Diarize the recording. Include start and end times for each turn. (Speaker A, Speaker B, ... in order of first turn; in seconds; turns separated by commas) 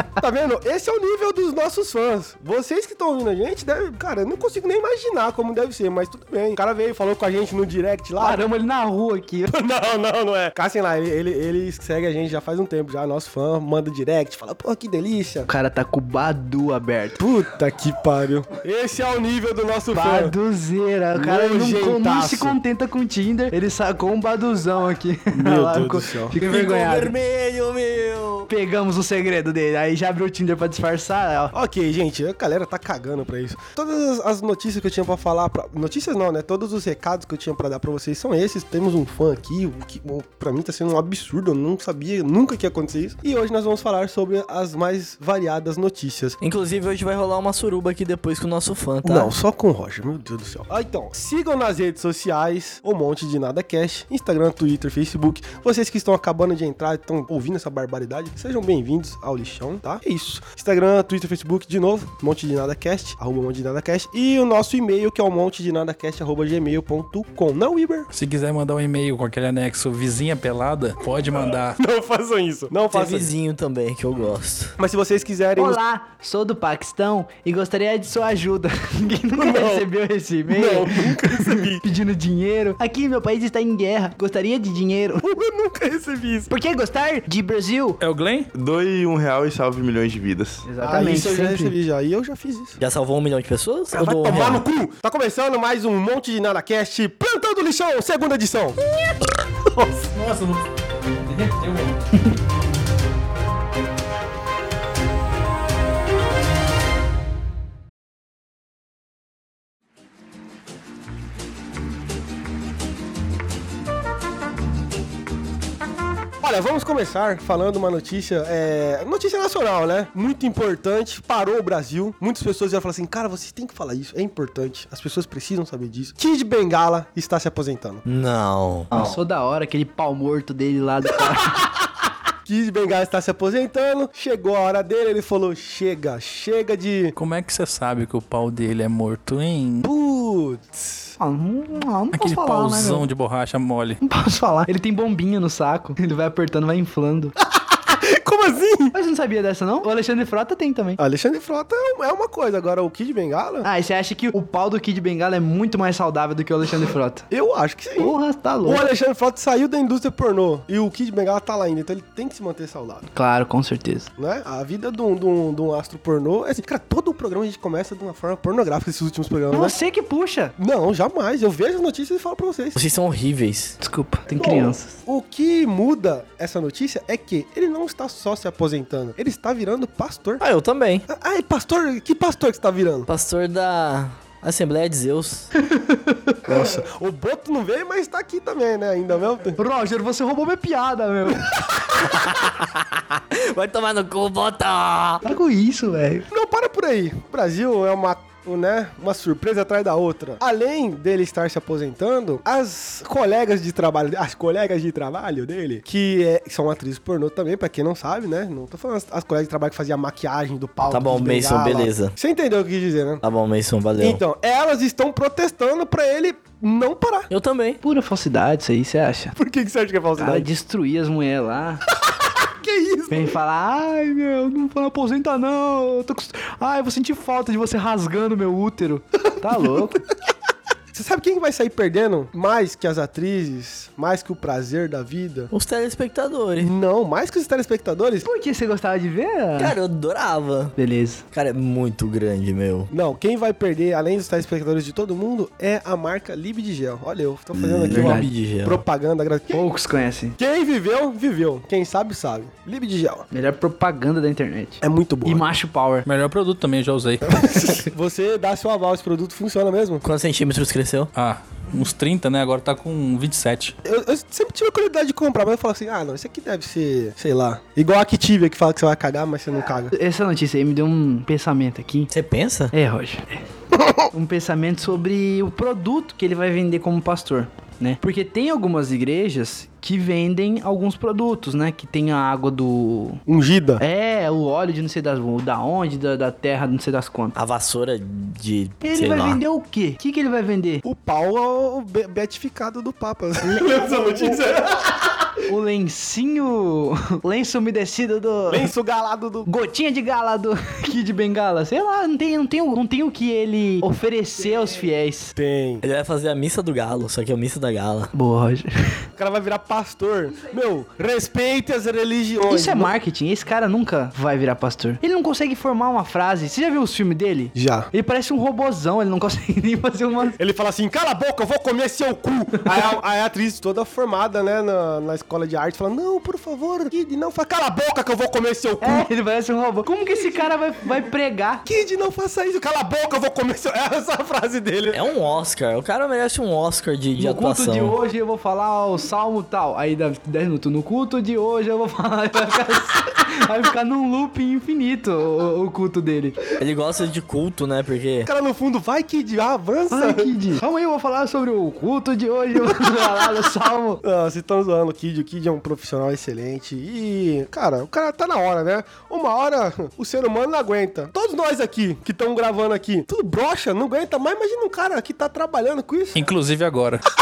Speaker A: 0.2-8.4, Speaker B: 8.2-9.5, Speaker A: 9.5-15.5, Speaker B: 15.5-17.2, Speaker A: 17.2-20.3, Speaker B: 19.9-27.1, Speaker A: 21.1-22.6, Speaker A: 25.3-26.4, Speaker C: 26.4-28.5, Speaker B: 28.5-31.5, Speaker A: 31.5-46.4, Speaker C: 46.4-49.3, Speaker A: 49.0-68.1, Speaker D: 68.1-71.8, Speaker A: 71.8-73.3, Speaker C: 72.9-74.7, Speaker A: 74.8-75.8, Speaker B: 75.6-85.2, Speaker A: 79.4-79.9, Speaker A: 80.5-81.8, Speaker A: 85.2-86.5, Speaker B: 86.5-88.0, Speaker D: 88.0-88.5, Speaker E: 88.5-90.7, Speaker B: 90.7-91.7, Speaker A: 90.8-92.8, Speaker C: 92.8-94.6, Speaker A: 93.9-98.8, Speaker A: 99.5-100.1, Speaker D: 100.1-100.7, Speaker D: 101.2-102.1, Speaker A: 116.4-128.0, Speaker C: 128.1-129.2, Speaker B: 128.9-131.6, Speaker A: 132.5-137.1, Speaker D: 137.2-139.9, Speaker A: 139.9-141.1, Speaker B: 141.2-143.1, Speaker D: 142.1-144.0, Speaker B: 144.0-147.3, Speaker A: 147.5-148.9, Speaker B: 148.9-151.0, Speaker A: 151.0-153.7, Speaker B: 153.6-157.3, Speaker A: 157.3-163.1, Speaker B: 158.0-158.8, Speaker B: 163.1-164.1, Speaker A: 164.2-169.8, Speaker B: 169.5-170.5, Speaker A: 170.6-172.8, Speaker C: 172.8-173.8, Speaker B: 173.8-174.9, Speaker A: 174.3-180.4, Speaker C: 180.4-181.1, Speaker A: 181.1-183.1, Speaker C: 183.1-185.5, Speaker B: 185.6-186.4, Speaker C: 186.5-186.8, Speaker A: 186.5-189.6, Speaker B: 189.6-191.5, Speaker C: 191.9-195.3, Speaker B: 195.2-196.3, Speaker A: 196.3-213.2, Speaker C: 210.9-212.1, Speaker C: 213.2-214.2, Speaker A: 214.0-217.3, Speaker C: 217.3-217.8, Speaker B: 217.8-219.4, Speaker A: 219.4-220.5, Speaker B: 220.2-221.8, Speaker A: 222.4-223.4, Speaker B: 223.1-230.0, Speaker A: 230.9-235.5, Speaker C: 235.5-236.7, Speaker A: 236.6-238.3, Speaker B: 238.2-239.8, Speaker C: 239.6-240.7, Speaker B: 240.8-241.2, Speaker C: 241.3-242.9, Speaker A: 242.9-249.6, Speaker C: 247.5-248.8, Speaker B: 247.9-248.3, Speaker B: 249.5-250.4, Speaker A: 250.4-253.3, Speaker B: 253.3-256.1, Speaker A: 254.8-255.4, Speaker D: 256.1-257.4, Speaker A: 257.2-260.0, Speaker C: 260.0-261.1, Speaker D: 261.2-263.8, Speaker A: 263.9-269.9, Speaker B: 269.9-272.1, Speaker C: 272.1-272.7, Speaker B: 272.7-273.4, Speaker B: 274.1-283.2, Speaker A: 283.3-283.8, Speaker B: 283.8-287.4, Speaker C: 287.4-289.4, Speaker B: 288.8-290.8, Speaker A: 290.8-295.3, Speaker B: 293.4-294.4, Speaker B: 295.5-298.7, Speaker A: 298.5-299.5, Speaker B: 299.4-305.3, Speaker A: 305.4-305.9, Speaker C: 305.8-308.1, Speaker B: 308.1-309.1, Speaker A: 309.2-312.9, Speaker B: 312.5-320.4, Speaker A: 317.6-317.9, Speaker A: 320.4-329.1, Speaker B: 328.8-331.6, Speaker A: 331.7-335.0, Speaker C: 334.9-337.9, Speaker B: 337.2-346.4, Speaker C: 346.6-348.3, Speaker A: 348.3-350.3, Speaker B: 349.9-354.0, Speaker A: 354.0-366.2, Speaker D: 366.1-367.0